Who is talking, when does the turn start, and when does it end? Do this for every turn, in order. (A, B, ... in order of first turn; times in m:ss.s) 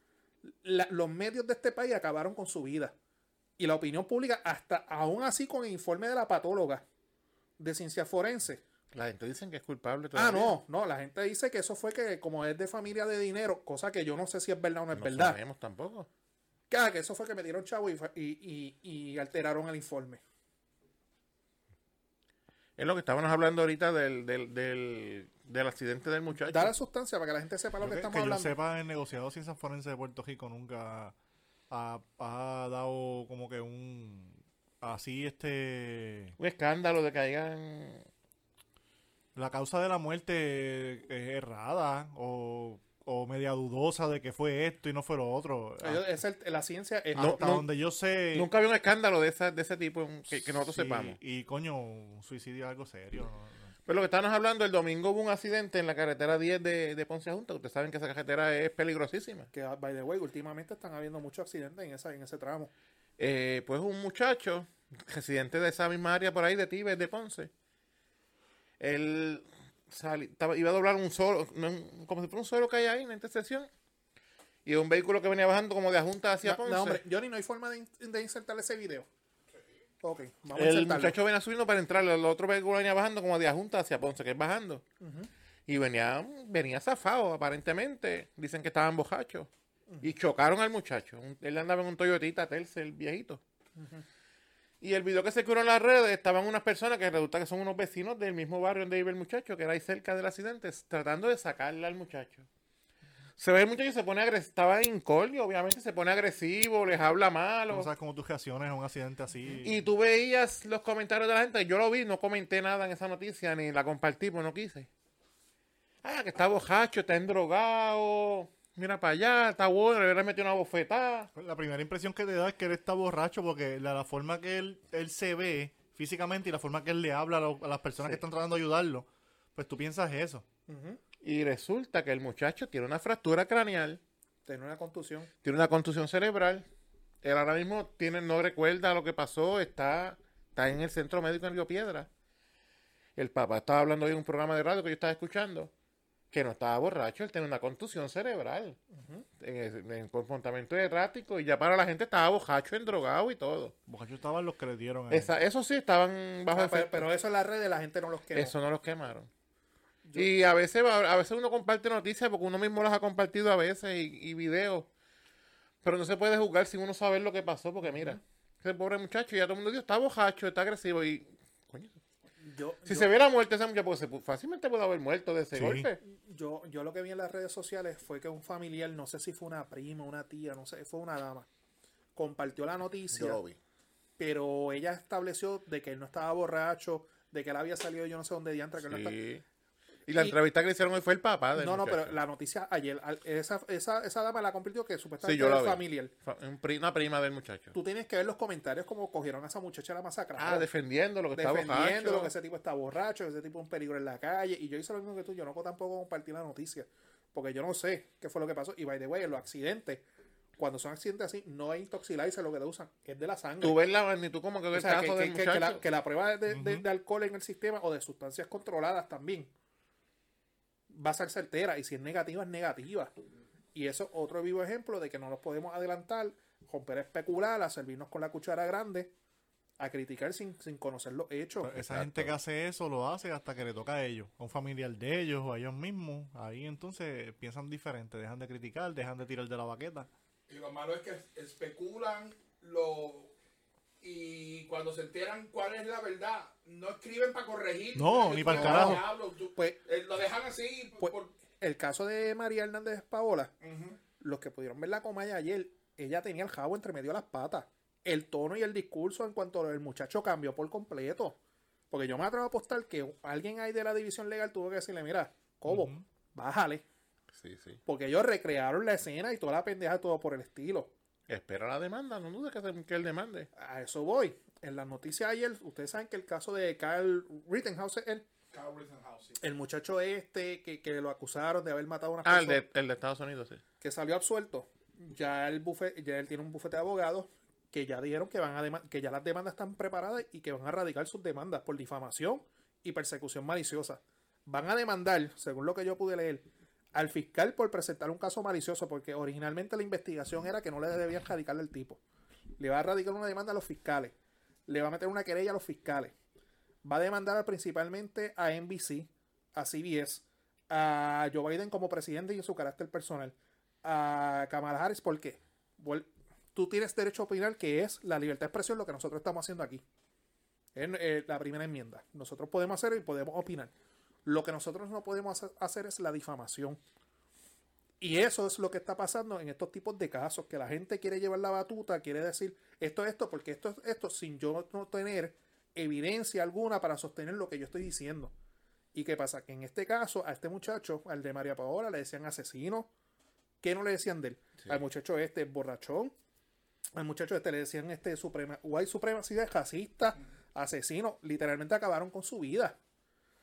0:00.4-0:02.9 A
0:03.6-0:06.8 A
0:07.6-0:08.6 A
0:08.9-0:10.6 B
0:10.1-0:15.4 A
0:14.9-0:16.1 B
0:16.7-0:20.2 A
0:22.8-0:26.7 B
0:26.5-0:28.6 A
0:27.8-0:31.1 C
0:31.7-0:36.4 C
0:36.4-0:38.1 B
0:39.4-0:46.0 C
0:45.8-0:47.4 A
0:47.1-0:47.6 B
0:47.1-0:48.5 C
0:48.3-0:51.2 B
0:50.6-0:53.7 C
0:53.8-0:59.5 B
0:59.5-1:02.7 A
1:03.2-1:07.5 B
1:08.8-1:13.7 B
1:14.6-1:17.0 B
1:16.4-1:19.1 A
1:20.0-1:21.2 A
1:20.5-1:24.8 B
1:25.0-1:25.3 A
1:25.7-1:29.5 B
1:30.0-1:33.4 B
1:33.8-1:34.0 A
1:34.8-1:42.5 B
1:43.4-1:47.9 B
1:47.7-1:49.8 C
1:49.6-1:54.9 B
1:56.0-2:01.3 B
2:01.3-2:10.4 C
2:10.7-2:11.0 A
2:11.2-2:14.0 B
2:14.4-2:15.3 A
2:15.4-2:16.7 B
2:17.2-2:22.1 B
2:23.2-2:25.7 B
2:26.3-2:28.8 B
2:28.9-2:29.2 A
2:29.4-2:33.7 B
2:33.9-2:35.3 C
2:35.1-2:37.1 B
2:36.5-2:38.5 A
2:38.3-2:39.3 B
2:40.0-2:40.3 A
2:40.1-2:44.9 B
2:45.8-2:52.0 B
2:47.9-2:48.2 A
2:52.4-2:53.1 A
2:52.8-2:56.0 B
2:55.5-2:55.9 C
2:56.0-3:01.5 A
3:02.2-3:03.4 A
3:03.1-3:03.6 B
3:04.2-3:09.2 A
3:08.8-3:09.4 B
3:10.1-3:12.2 B
3:11.6-3:16.1 A
3:15.2-3:17.8 B
3:17.7-3:20.7 A
3:20.4-3:22.3 B
3:21.3-3:30.0 A
3:30.6-3:33.8 A
3:33.6-3:35.8 B
3:34.7-3:39.5 A
3:36.5-3:36.8 C
3:40.9-3:43.1 A
3:43.7-3:49.1 A
3:49.8-3:51.7 A
3:51.6-4:00.1 C
3:51.7-3:52.3 B
4:00.5-4:03.3 D
4:04.0-4:11.3 D
4:07.9-4:09.1 C
4:08.4-4:09.8 A
4:11.0-4:13.6 A
4:13.6-4:14.0 D
4:14.2-4:21.4 A
4:21.9-4:26.8 A
4:25.7-4:26.0 C
4:27.3-4:27.8 B
4:27.8-4:30.9 A
4:31.3-4:33.5 B
4:33.6-4:38.2 A
4:38.5-4:39.4 D
4:39.4-4:42.6 A
4:42.2-4:43.6 B
4:43.8-5:02.0 A
5:02.6-5:04.2 A
5:04.7-5:06.1 A
5:06.8-5:19.8 A
5:20.7-5:23.7 A
5:24.2-5:26.8 A
5:28.0-5:38.3 A
5:38.9-5:42.9 A
5:43.6-5:46.1 A
5:46.9-5:52.8 A